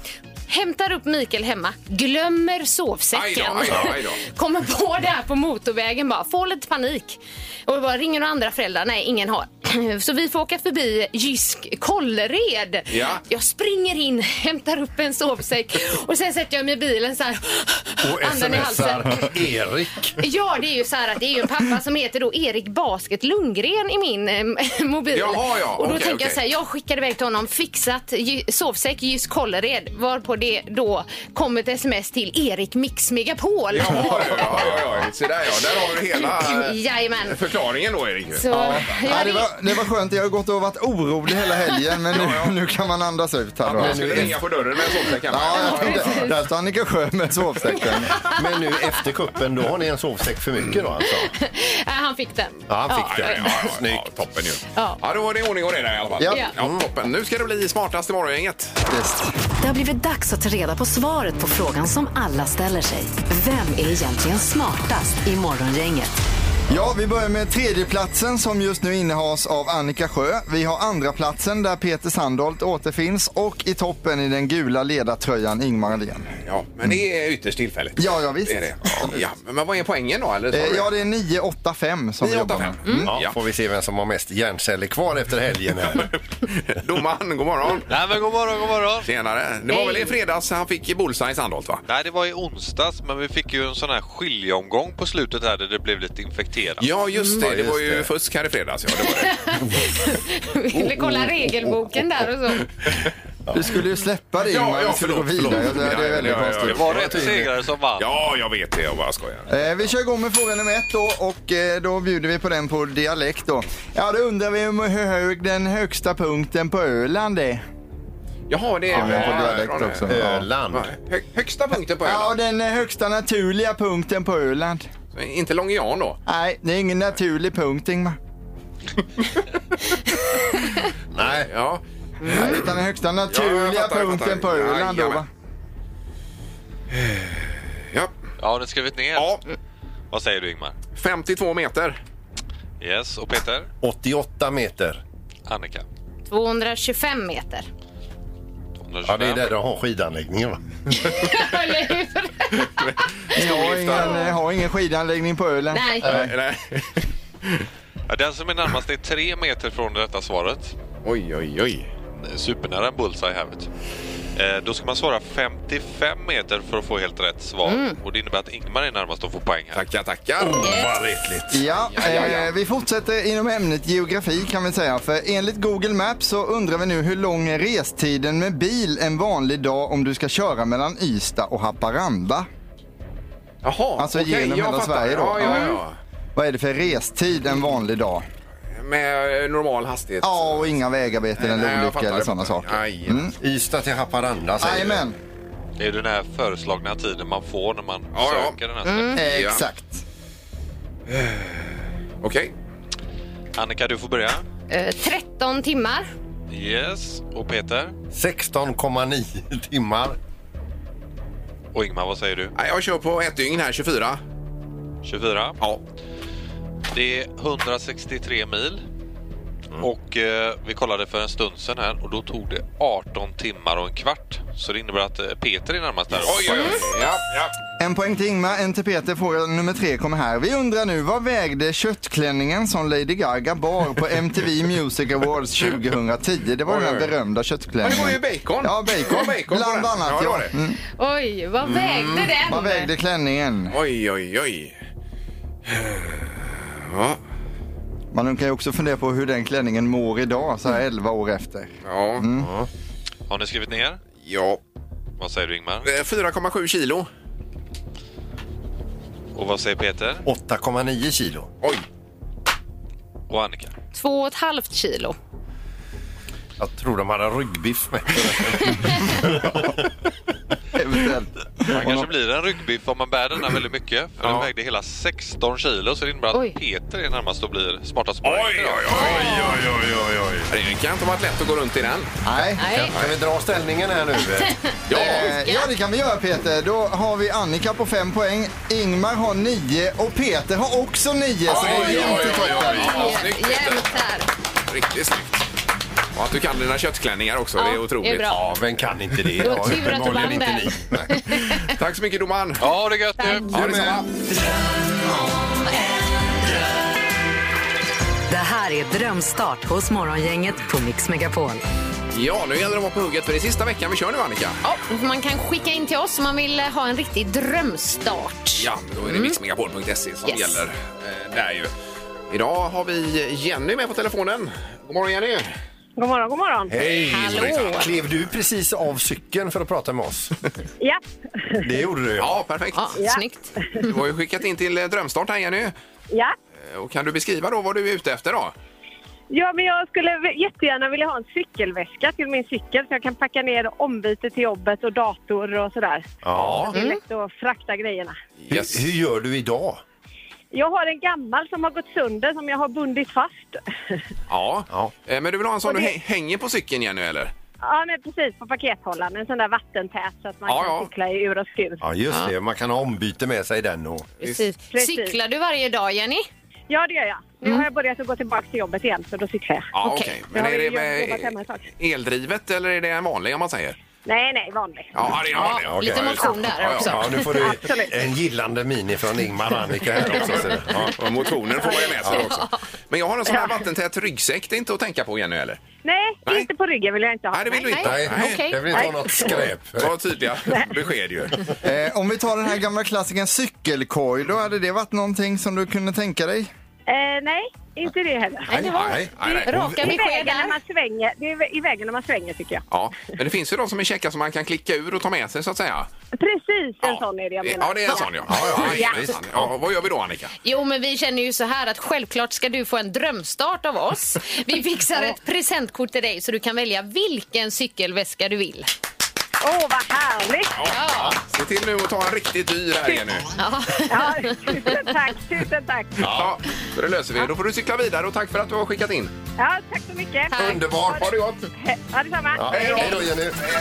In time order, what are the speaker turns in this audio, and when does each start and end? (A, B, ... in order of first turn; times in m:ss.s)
0:00.5-0:19.4 A
0:03.1-0:04.2 B
0:12.9-0:13.2 B
0:18.0-0:20.2 C
0:20.2-0:34.4 A
0:25.1-0:26.4 B
0:33.7-0:38.5 B
0:36.2-0:37.4 A
0:38.4-0:39.5 A
0:38.5-0:44.4 D
0:42.1-0:42.5 B
0:43.6-0:46.3 B
0:43.7-0:44.4 C
0:45.3-0:48.2 D
0:45.5-0:46.3 A
0:48.2-0:51.3 C
0:51.0-0:53.7 A
0:52.7-0:54.1 C
0:53.0-0:58.8 B
0:54.8-0:55.0 A
0:56.2-0:56.5 D
0:56.6-0:56.8 C
0:58.9-0:59.3 D
0:59.6-1:06.2 E
1:06.7-1:16.3 D
1:16.4-1:20.9 B
1:18.0-1:19.2 D
1:20.5-1:23.1 D
1:22.2-1:23.4 B
1:23.1-1:26.1 C
1:26.5-1:27.9 B
1:27.9-1:29.1 F
1:29.0-1:31.8 B
1:29.7-1:30.1 A
1:31.9-1:36.9 F
1:36.8-1:39.5 B
1:37.3-1:38.1 C
1:39.2-1:42.7 A
1:39.6-1:39.9 C
1:40.7-1:42.0 C
1:43.5-1:47.3 D
1:44.5-1:46.9 B
1:46.6-1:48.1 F
1:46.8-1:47.5 C
1:48.0-1:49.6 B
1:49.5-1:57.6 D
1:58.5-2:02.4 B
1:58.9-2:00.5 D
1:59.0-2:00.9 C
2:02.0-2:04.9 D
2:05.1-2:06.2 B
2:06.3-2:08.2 D
2:11.1-2:11.5 C
2:11.5-2:12.6 B
2:12.2-2:15.3 D
2:13.3-2:15.2 B
2:16.9-2:18.1 B
2:18.4-2:19.4 F
2:19.2-2:19.4 B
2:20.1-2:20.8 F
2:21.0-2:22.0 B
2:22.8-2:23.7 F
2:23.8-2:25.0 C
2:25.5-2:25.8 F
2:26.3-2:27.7 A
2:28.8-2:29.5 F
2:29.0-2:30.6 C
2:31.0-2:32.9 A
2:32.8-2:34.3 B
2:33.4-2:36.3 D
2:33.8-2:34.3 A
2:35.7-2:36.1 A
2:36.0-2:37.6 B
2:38.1-2:40.8 F
2:41.0-2:41.9 B
2:42.2-2:43.7 F
2:44.4-2:49.9 F
2:47.6-2:48.0 A
2:49.7-2:50.8 B
2:50.4-2:51.6 C
2:50.6-2:50.9 A
2:51.5-3:02.5 D
2:51.9-2:52.5 B
3:03.6-3:06.0 B
3:04.0-3:05.8 D
3:06.4-3:08.3 D
3:08.8-3:10.8 B
3:10.2-3:13.4 D
3:11.4-3:13.3 B
3:13.4-3:15.0 C
3:14.6-3:15.2 D
3:15.8-3:19.2 F
3:18.1-3:18.6 B
3:18.8-3:19.2 A
3:19.2-3:20.0 D
3:19.2-3:19.6 B
3:21.1-3:22.5 B
3:23.6-3:24.4 F
3:24.7-3:26.1 A
3:26.5-3:28.0 F
3:28.1-3:30.2 C
3:31.7-3:32.5 F
3:32.6-3:34.2 B
3:35.0-3:35.6 F
3:36.9-3:38.8 F
3:39.8-3:46.8 F
3:46.2-3:47.5 B
3:46.5-3:46.8 A
3:47.8-4:00.8 D
3:56.7-3:57.1 B
3:57.8-4:00.5 B
4:01.0-4:02.9 A
4:01.6-4:02.4 C
4:02.4-4:03.8 D
4:03.7-4:04.8 B
4:05.7-4:07.2 B
4:08.1-4:12.5 D
4:11.8-4:12.3 B
4:12.4-4:12.7 C
4:13.3-4:14.0 F
4:14.2-4:14.6 B
4:15.2-4:15.9 F
4:15.8-4:17.1 B
4:19.3-4:20.2 F
4:20.2-4:21.5 C
4:23.3-4:23.7 F
4:23.9-4:25.2 A
4:26.6-4:29.8 C
4:30.7-4:32.1 D
4:31.7-4:39.5 F
4:34.2-4:34.5 B
4:36.3-4:36.6 A
4:38.2-4:39.9 B
4:38.9-4:39.6 A
4:40.4-4:42.1 B
4:42.2-4:42.8 D
4:42.6-4:42.9 A
4:42.7-4:44.6 C
4:44.5-4:45.7 A
4:44.9-4:45.3 B
4:44.9-4:53.2 D
4:51.5-4:53.9 B
4:51.6-4:54.3 A
4:54.7-4:55.4 B
4:56.2-4:58.5 B
4:57.6-4:58.4 A
4:58.3-5:01.6 C
4:59.4-5:01.7 A
5:01.7-5:02.7 B
5:02.6-5:03.5 F
5:03.2-5:03.5 A
5:03.5-5:04.1 B
5:03.5-5:04.1 C
5:08.3-5:11.6 E
5:12.1-5:14.6 B
5:14.6-5:19.4 A
5:18.6-5:21.7 B
5:20.3-5:20.6 A
5:22.3-5:25.5 B
5:26.0-5:26.8 G
5:26.7-5:30.3 C
5:27.1-5:27.9 A
5:27.1-5:27.9 B
5:31.6-5:32.4 C
5:32.2-5:33.0 B
5:32.7-5:33.9 A
5:33.8-5:35.7 B
5:36.6-5:38.5 B
5:39.3-5:46.1 G
5:46.2-5:46.7 C
5:46.3-5:46.8 B
5:46.7-5:48.2 G
5:46.7-5:47.0 A
5:48.4-5:48.8 B
5:48.5-5:49.8 C
5:50.5-5:54.0 G
5:54.3-5:57.3 B
5:55.6-5:55.9 G
5:57.6-6:01.8 G
6:00.5-6:00.9 B
6:01.8-6:04.1 C
6:04.2-6:06.3 A
6:04.7-6:05.2 G
6:06.7-6:09.7 G
6:09.7-6:13.8 B
6:09.8-6:10.1 A
6:10.3-6:11.6 G
6:14.0-6:14.9 G
6:15.0-6:17.2 B
6:15.3-6:17.6 A
6:15.5-6:21.0 C
6:17.2-6:17.9 G
6:20.0-6:25.6 B
6:21.6-6:22.1 G
6:22.1-6:22.6 A
6:25.8-6:27.9 G
6:27.3-6:31.5 B
6:27.7-6:29.0 A
6:27.8-6:29.9 C
6:28.7-6:29.4 G
6:31.6-6:36.5 D
6:36.9-6:42.6 G
6:38.5-6:39.7 C
6:38.7-6:39.7 B
6:39.5-6:40.6 A
6:42.7-6:45.9 B
6:46.2-6:49.0 G
6:46.8-6:50.3 B
6:48.3-6:49.5 C
6:50.4-6:58.7 A
6:59.4-7:00.5 G
7:00.6-7:03.2 B
7:00.7-7:01.2 A
7:03.4-7:05.0 A
7:03.9-7:06.1 G
7:06.0-7:06.3 C
7:06.0-7:09.1 B
7:09.4-7:11.1 G
7:10.3-7:10.6 A
7:10.4-7:11.1 C
7:11.0-7:11.4 B
7:11.6-7:13.1 G
7:12.3-7:13.4 C
7:12.5-7:13.1 B